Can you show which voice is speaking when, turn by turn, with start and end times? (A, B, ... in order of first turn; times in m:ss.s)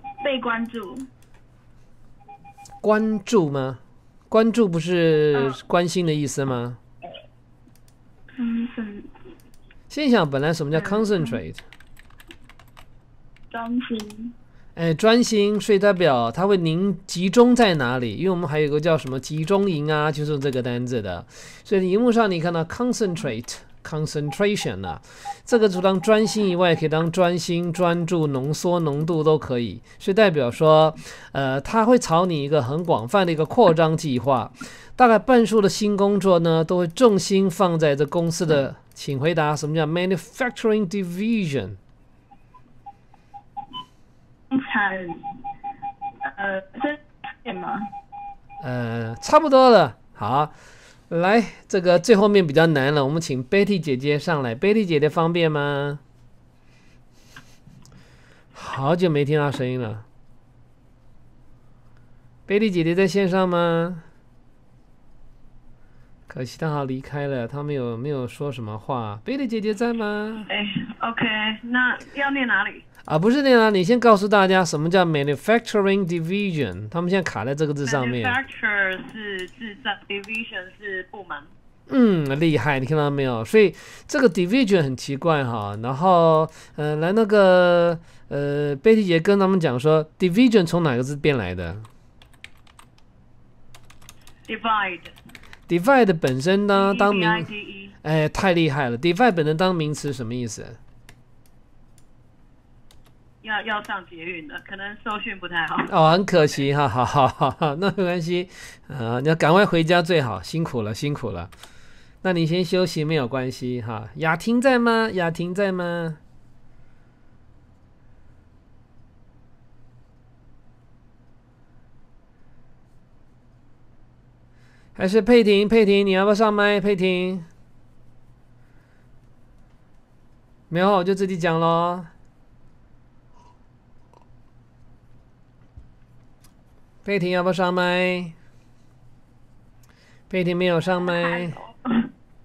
0:00.2-0:01.1 A
0:02.8-0:06.8 B
0:05.3-0:05.6 A
0:08.4-0:09.1 A
0:09.9-0:11.6 B
0:10.7-0:11.4 A
0:13.5-0:14.3 A
0:14.8-0:41.8 B
0:44.5-0:45.2 A
0:46.2-0:47.9 A
0:48.6-0:50.5 B
0:51.1-0:56.0 B
0:58.6-1:00.0 B
1:02.5-1:04.0 B
1:06.3-1:10.5 B
1:10.5-1:12.8 C
1:13.1-1:18.4 B
1:17.8-1:21.5 C
1:21.9-1:31.9 B
1:34.5-1:35.1 C
1:35.7-1:37.5 B
1:36.7-1:38.0 C
1:38.0-1:40.8 B
1:43.4-1:45.9 C
1:45.9-1:51.5 B
1:52.2-1:56.2 B
2:05.0-2:07.5 B
2:10.7-2:12.1 B
2:17.0-2:18.3 B
2:20.3-2:21.6 B